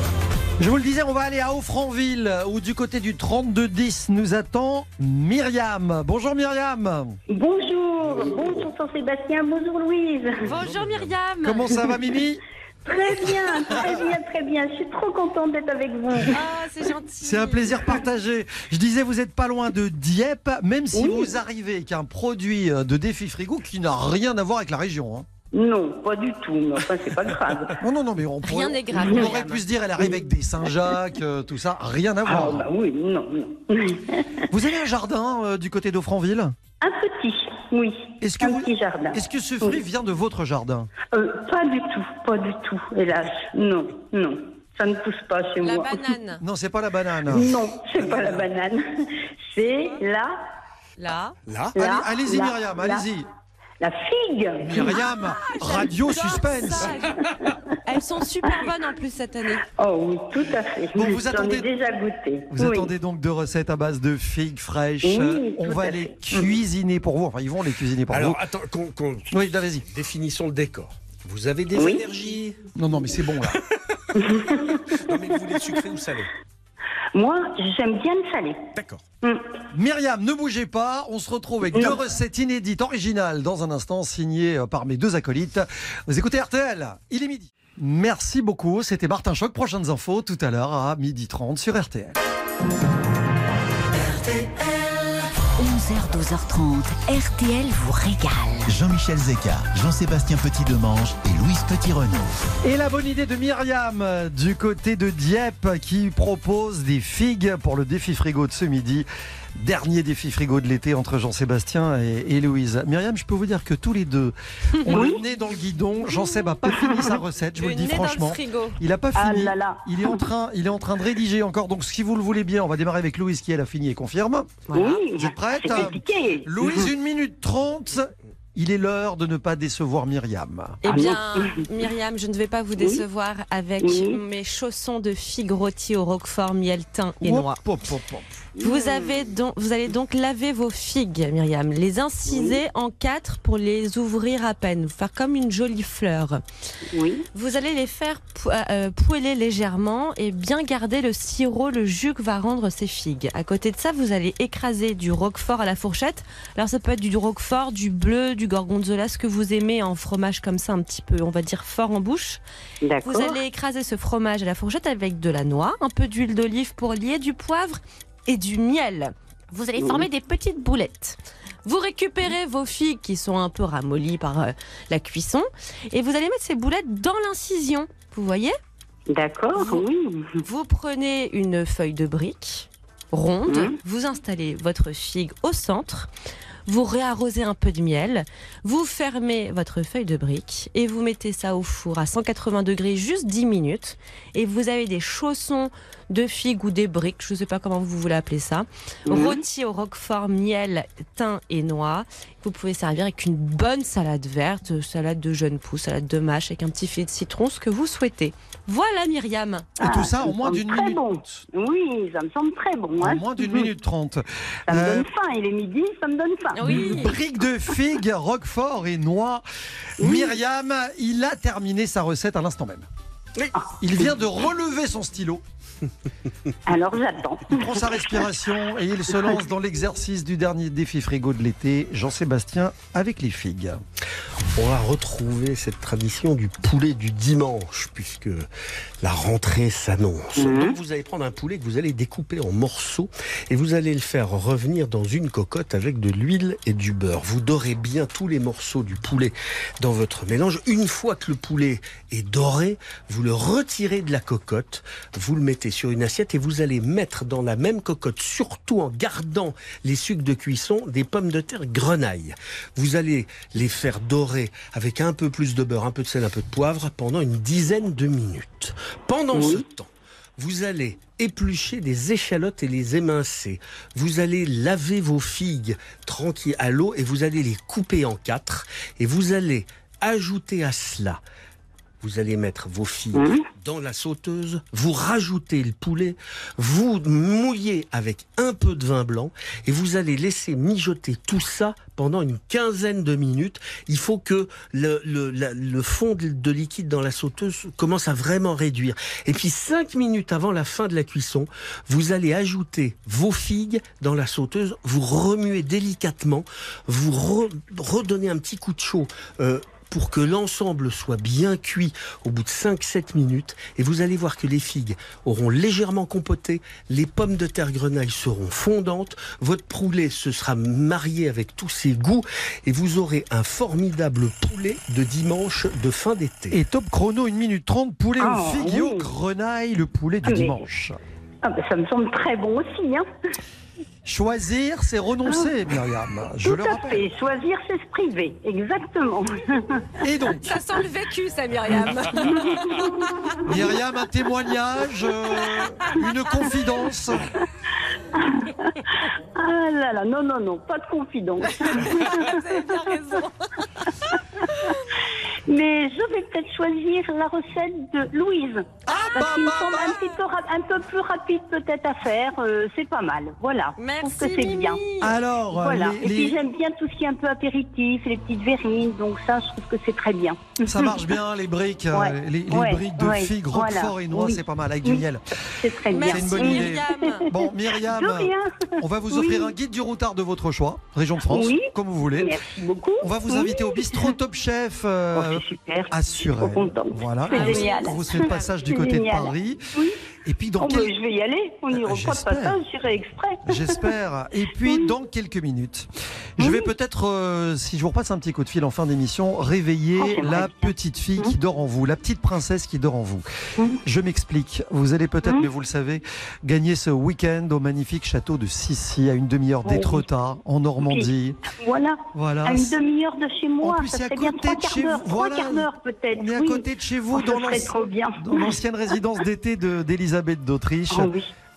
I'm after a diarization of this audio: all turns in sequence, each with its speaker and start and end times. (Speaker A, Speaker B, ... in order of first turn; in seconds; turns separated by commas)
Speaker A: 0.6-7.2, Speaker B: 7.3-10.4, Speaker C: 10.4-11.9, Speaker A: 11.4-12.4, Speaker B: 12.9-16.4, Speaker C: 16.3-18.0, Speaker A: 17.2-25.3, Speaker B: 20.9-21.3, Speaker B: 25.5-27.8, Speaker A: 27.8-32.7, Speaker C: 28.4-29.6, Speaker B: 29.1-29.3, Speaker B: 32.2-34.5, Speaker A: 34.5-36.5, Speaker B: 36.8-39.8, Speaker A: 38.2-40.9, Speaker B: 41.1-46.0, Speaker C: 45.6-46.4, Speaker A: 46.4-47.5, Speaker B: 47.3-50.4, Speaker C: 51.0-51.4, Speaker D: 51.5-51.8, Speaker B: 51.8-53.0, Speaker A: 51.8-53.3, Speaker B: 53.8-55.0, Speaker A: 54.6-57.0, Speaker C: 54.9-57.2, Speaker C: 57.8-59.6, Speaker B: 59.8-62.9, Speaker A: 61.0-61.7, Speaker A: 62.5-68.4, Speaker B: 65.0-66.5, Speaker D: 68.1-72.6, Speaker A: 69.3-69.8, Speaker B: 71.7-72.0, Speaker A: 72.8-73.6, Speaker B: 74.2-75.8, Speaker D: 75.0-76.3, Speaker B: 77.1-78.6, Speaker D: 78.8-79.0, Speaker A: 79.7-92.2, Speaker E: 93.9-98.7, Speaker F: 98.7-102.3, Speaker A: 102.6-109.1, Speaker A: 109.6-124.6, Speaker C: 114.8-115.1, Speaker B: 114.9-115.2, Speaker B: 116.7-117.1, Speaker C: 117.6-118.8, Speaker B: 119.1-120.3, Speaker C: 124.7-125.0, Speaker B: 124.7-126.9, Speaker A: 125.2-130.8, Speaker C: 130.8-137.6, Speaker B: 130.8-131.7, Speaker B: 132.8-133.0, Speaker B: 133.8-134.2, Speaker A: 137.2-138.4, Speaker B: 138.6-139.2, Speaker C: 138.6-146.4, Speaker B: 142.3-142.6, Speaker B: 146.9-147.3, Speaker C: 147.3-162.4, Speaker B: 162.8-163.4, Speaker C: 163.0-178.6, Speaker B: 169.8-170.1, Speaker B: 179.1-180.4, Speaker C: 179.6-179.9, Speaker C: 180.4-186.1, Speaker B: 183.5-183.8, Speaker C: 186.7-209.7, Speaker B: 199.1-199.4, Speaker A: 209.8-211.4, Speaker B: 209.8-213.7, Speaker A: 213.0-215.1, Speaker B: 214.7-217.1, Speaker C: 216.6-217.2, Speaker A: 216.6-219.4, Speaker A: 220.0-222.9, Speaker B: 220.0-220.3, Speaker B: 223.6-224.0, Speaker A: 223.8-225.4, Speaker B: 226.7-228.2, Speaker A: 227.5-233.8, Speaker D: 234.6-238.4, Speaker D: 239.0-281.2, Speaker B: 240.4-240.8, Speaker B: 269.3-269.6, Speaker D: 282.0-326.6, Speaker B: 283.1-283.4, Speaker A: 326.5-331.0, Speaker B: 328.2-329.1, Speaker B: 330.3-330.6, Speaker B: 331.4-333.1, Speaker A: 334.1-337.1, Speaker B: 335.3-335.5, Speaker B: 336.4-339.9, Speaker A: 340.0-340.6, Speaker C: 340.4-342.9, Speaker B: 342.3-342.7, Speaker A: 343.4-347.3, Speaker B: 348.2-348.7, Speaker B: 349.4-352.9, Speaker C: 351.9-353.9, Speaker B: 355.4-364.8, Speaker A: 358.9-360.0, Speaker C: 363.8-365.2, Speaker A: 365.0-366.4, Speaker B: 365.5-371.1, Speaker A: 370.7-375.3, Speaker B: 371.9-375.1, Speaker B: 375.6-379.5, Speaker C: 375.9-377.2, Speaker A: 376.1-382.4, Speaker B: 381.3-384.1, Speaker A: 383.0-389.6, Speaker B: 385.1-389.9, Speaker C: 387.3-388.3, Speaker A: 390.2-390.9, Speaker B: 390.6-393.9, Speaker A: 391.7-392.6, Speaker A: 393.4-403.2, Speaker B: 394.7-394.9, Speaker B: 396.4-396.7, Speaker B: 400.0-401.4, Speaker A: 403.8-411.4, Speaker B: 409.6-410.1, Speaker B: 410.8-418.6, Speaker A: 412.1-412.8, Speaker A: 413.6-421.1, Speaker B: 420.9-421.3